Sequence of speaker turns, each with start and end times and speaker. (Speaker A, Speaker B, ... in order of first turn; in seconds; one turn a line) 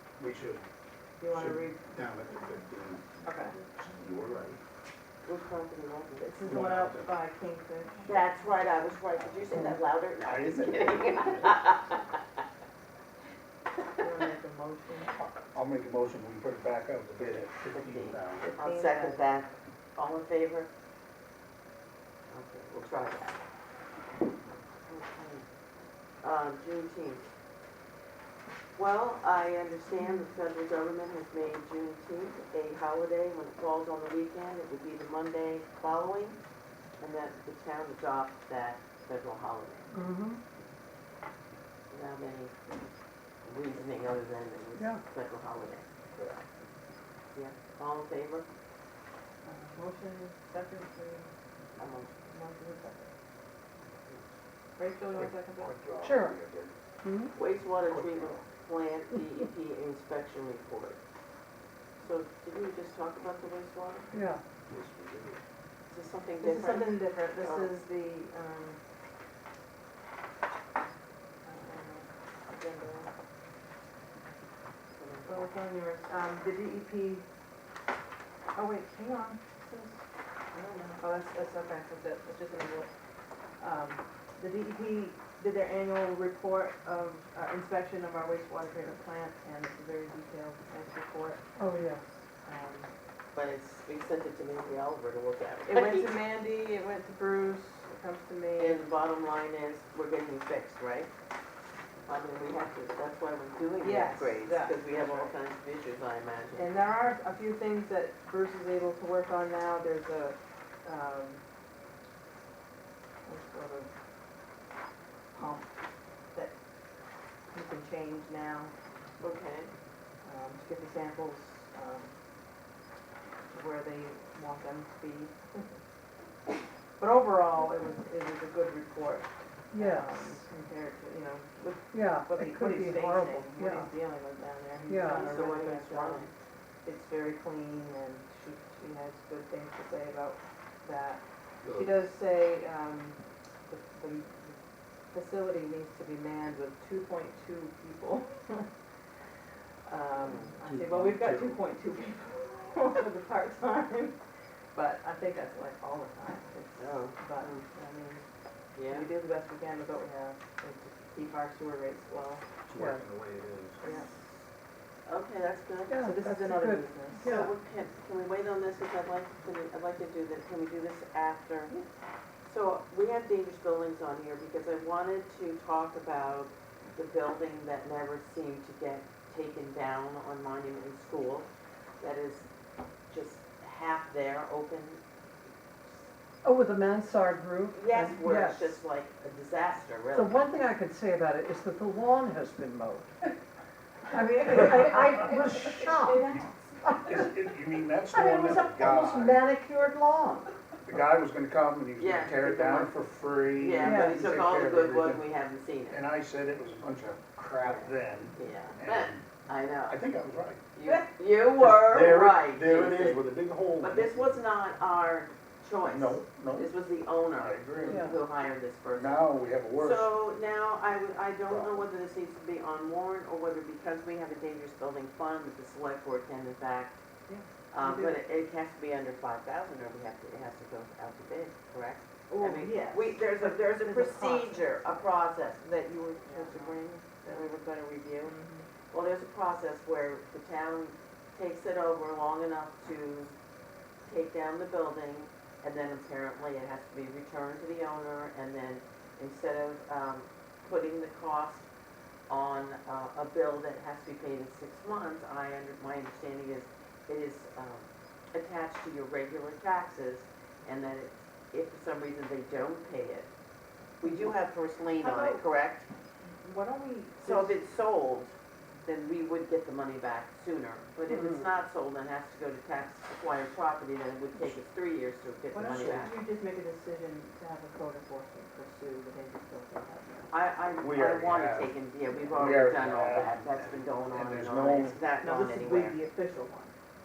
Speaker A: 0.2-0.6
Speaker B: 1.2-1.8
Speaker A: 1.3-4.6
Speaker B: 3.2-3.6
Speaker C: 5.2-6.3
Speaker B: 6.2-8.3
Speaker A: 6.4-7.1
Speaker C: 8.1-12.1
Speaker A: 9.2-11.7
Speaker B: 14.0-15.2
Speaker A: 15.5-18.5
Speaker C: 17.4-20.7
Speaker B: 18.4-19.3
Speaker C: 22.3-23.4
Speaker C: 24.9-25.5
Speaker C: 26.2-27.3
Speaker C: 28.8-36.4
Speaker C: 37.0-39.9
Speaker D: 39.9-40.4
Speaker C: 41.9-42.7
Speaker C: 43.4-45.9
Speaker C: 47.4-48.5
Speaker B: 49.4-51.3
Speaker C: 51.8-52.2
Speaker B: 52.3-53.1
Speaker B: 54.8-55.8
Speaker A: 55.1-56.8
Speaker D: 56.0-56.4
Speaker D: 57.0-57.3
Speaker C: 57.3-61.0
Speaker A: 57.9-58.4
Speaker C: 62.0-64.2
Speaker D: 64.1-64.4
Speaker A: 64.7-65.4
Speaker C: 65.9-67.7
Speaker B: 66.4-68.8
Speaker B: 71.4-73.1
Speaker C: 74.9-75.5
Speaker B: 75.2-77.3
Speaker B: 78.5-82.9
Speaker B: 83.6-91.7
Speaker D: 91.6-92.0
Speaker B: 92.4-92.9
Speaker C: 93.3-96.1
Speaker B: 95.7-98.8
Speaker C: 98.6-101.1
Speaker C: 102.1-106.7
Speaker B: 103.8-105.3
Speaker B: 106.6-111.4
Speaker B: 113.2-113.9
Speaker B: 115.3-115.7
Speaker B: 116.3-116.6
Speaker B: 117.5-118.7
Speaker C: 119.2-119.7
Speaker B: 120.2-122.2
Speaker B: 123.5-125.7
Speaker B: 127.0-136.3
Speaker D: 129.7-130.4
Speaker D: 131.9-133.9
Speaker D: 134.9-135.3
Speaker C: 135.0-136.3
Speaker B: 136.8-144.6
Speaker A: 141.6-142.0
Speaker B: 145.1-148.7
Speaker B: 149.9-154.2
Speaker C: 150.2-150.6
Speaker A: 150.7-151.5
Speaker B: 154.7-158.2
Speaker C: 156.8-157.7
Speaker C: 158.8-159.1
Speaker B: 158.8-162.4
Speaker A: 162.7-163.8
Speaker D: 162.8-163.1
Speaker B: 163.8-164.1
Speaker C: 165.1-165.9
Speaker D: 165.9-167.5
Speaker B: 166.0-167.4
Speaker C: 167.2-171.8
Speaker C: 172.5-181.5
Speaker C: 182.0-182.5
Speaker C: 183.1-185.0
Speaker D: 186.4-188.8
Speaker C: 187.7-190.4
Speaker D: 190.1-193.1
Speaker D: 194.1-196.3
Speaker B: 194.2-197.0
Speaker D: 196.8-197.1
Speaker A: 197.1-199.4
Speaker D: 198.1-200.5
Speaker A: 200.8-205.2
Speaker C: 202.0-203.0
Speaker C: 203.6-206.0
Speaker D: 203.8-204.2
Speaker A: 205.9-209.3
Speaker C: 207.6-210.0
Speaker A: 209.9-210.6
Speaker C: 210.7-213.3
Speaker A: 211.6-214.4
Speaker C: 213.8-227.0
Speaker A: 215.8-216.7
Speaker A: 217.2-218.2
Speaker D: 217.9-218.2
Speaker A: 218.9-220.1
Speaker A: 221.5-221.8
Speaker B: 227.3-228.2
Speaker C: 227.7-238.4
Speaker B: 232.3-234.9
Speaker B: 236.2-237.5
Speaker B: 238.2-238.7
Speaker C: 238.9-243.3
Speaker C: 244.1-251.7
Speaker C: 252.3-263.3
Speaker C: 264.0-265.9
Speaker B: 264.1-264.3
Speaker B: 265.0-265.4
Speaker B: 266.4-267.6
Speaker C: 267.2-276.1
Speaker D: 271.1-271.5
Speaker B: 275.5-280.3
Speaker A: 275.7-276.1
Speaker C: 280.3-286.0
Speaker A: 280.8-281.8
Speaker A: 282.3-285.0
Speaker B: 285.2-286.7